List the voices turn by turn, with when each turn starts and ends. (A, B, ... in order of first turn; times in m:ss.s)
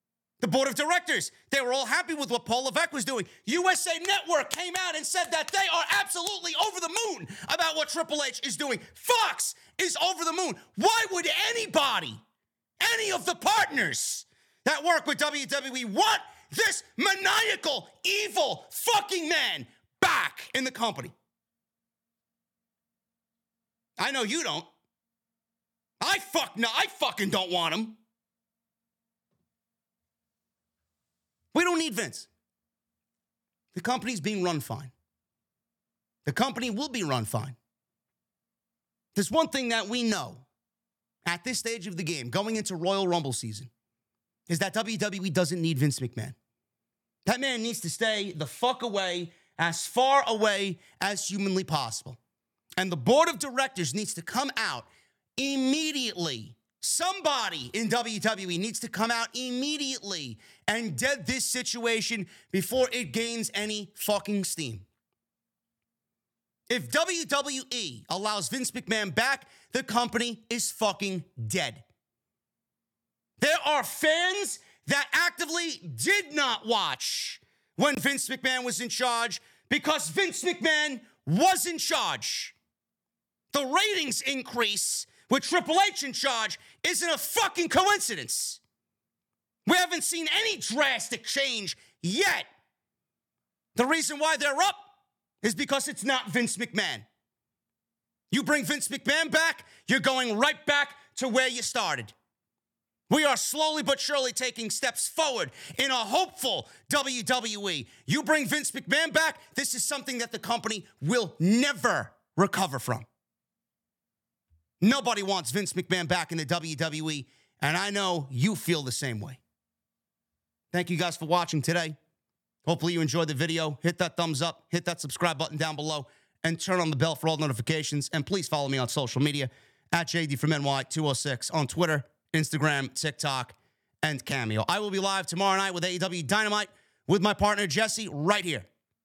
0:00.4-0:12.2 A
0:12.8-0:21.1 A
0:24.0-0:24.7 A
0:26.0-0:28.0 A
0:31.5-0:32.3 A
0:33.7-0:34.9 A
0:36.2-0:37.6 A
0:39.1-0:40.4 A
0:41.2-0:43.7 A
0:44.5-0:46.4 A
0:47.2-0:52.2 A
0:52.8-1:04.8 A
1:06.7-1:11.8 A
1:13.4-1:22.5 A
1:23.5-1:28.6 A
1:29.6-1:32.5 A
1:33.8-1:34.8 A
1:35.4-1:37.0 A
1:38.3-1:42.1 A
1:43.1-1:53.0 A
1:54.8-1:59.4 A
2:00.7-2:02.0 A
2:02.6-2:18.6 A